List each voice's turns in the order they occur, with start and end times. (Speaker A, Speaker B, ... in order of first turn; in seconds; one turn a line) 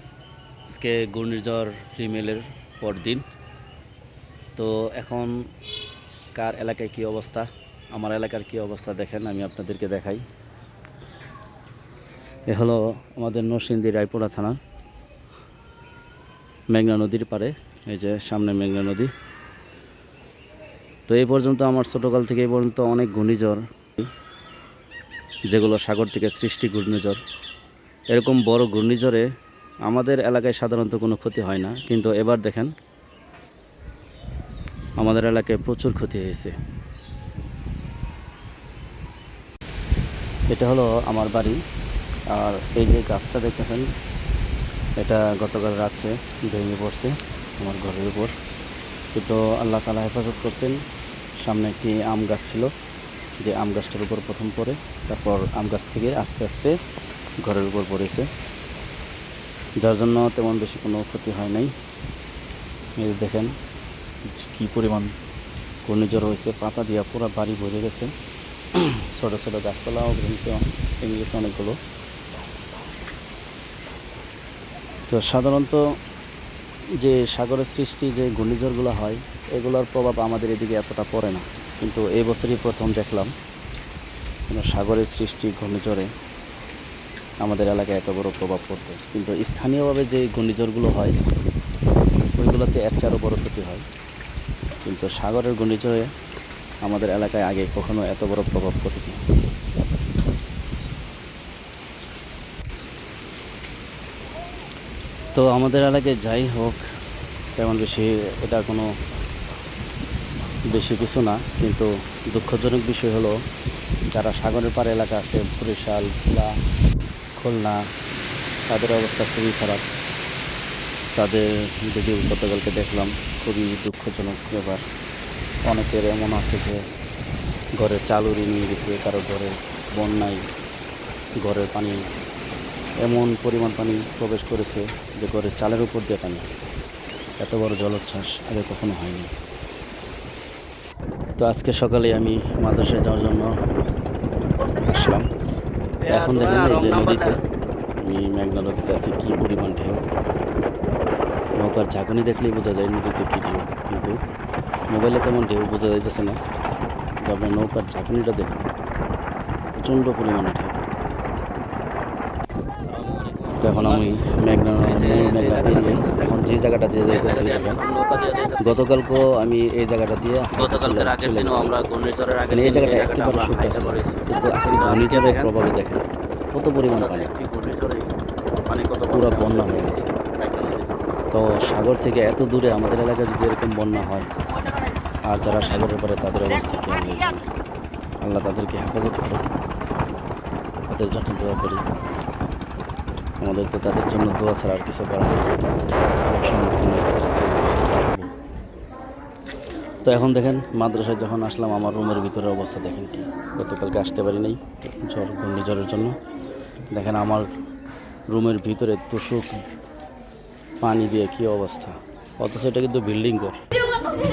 Speaker A: 0.7-3.2
Speaker A: 4.5-5.3
Speaker A: 6.3-10.2
Speaker A: 12.4-14.6
Speaker A: 16.7-19.1
Speaker A: 21.1-24.1
Speaker A: 25.5-27.2
Speaker A: 28.1-29.2
Speaker A: 29.9-32.7
Speaker A: 35.0-36.5
Speaker A: 40.5-41.6
Speaker A: 42.3-43.9
Speaker A: 45.0-48.3
Speaker A: 49.1-50.8
Speaker A: 51.4-52.7
Speaker A: 53.4-56.7
Speaker A: 57.4-58.2
Speaker A: 59.8-61.7
Speaker A: 63.0-63.5
Speaker A: 64.3-65.1
Speaker A: 65.8-68.1
Speaker A: 68.7-71.8
Speaker A: 75.1-75.8
Speaker A: 77.0-83.3
Speaker A: 84.5-86.1
Speaker A: 87.4-91.2
Speaker A: 92.3-93.8
Speaker A: 94.8-96.1
Speaker A: 96.8-99.2
Speaker A: 105.3-106.8
Speaker A: 107.6-108.9
Speaker A: 110.7-113.3
Speaker A: 114.1-116.5
Speaker A: 117.4-117.8
Speaker A: 118.7-119.8
Speaker A: 121.2-124.8
Speaker A: 125.7-126.8
Speaker A: 127.8-130.4
Speaker A: 131.4-132.0
Speaker A: 133.0-136.5
Speaker A: 137.4-139.3
Speaker A: 141.4-143.5
Speaker A: 144.6-145.3
Speaker B: 146.0-147.4
Speaker A: 146.1-147.3
Speaker A: 148.0-150.0
Speaker A: 151.6-154.2
Speaker A: 154.9-156.4
Speaker A: 157.2-158.6
Speaker A: 159.8-160.8
Speaker B: 162.8-164.1
Speaker A: 163.6-167.8
Speaker B: 164.8-166.3
Speaker B: 167.1-169.1
Speaker A: 168.6-171.8
Speaker B: 170.6-175.5
Speaker A: 172.5-177.3
Speaker B: 176.9-178.1
Speaker B: 178.7-179.8
Speaker A: 179.1-180.1
Speaker B: 180.4-180.9
Speaker A: 181.3-184.3
Speaker A: 185.2-187.5
Speaker A: 188.2-189.4
Speaker A: 190.9-191.8
Speaker A: 193.4-195.5
Speaker A: 196.2-198.3
Speaker A: 200.0-206.2
Speaker A: 206.9-207.5
Speaker A: 208.3-209.6
Speaker A: 210.8-213.6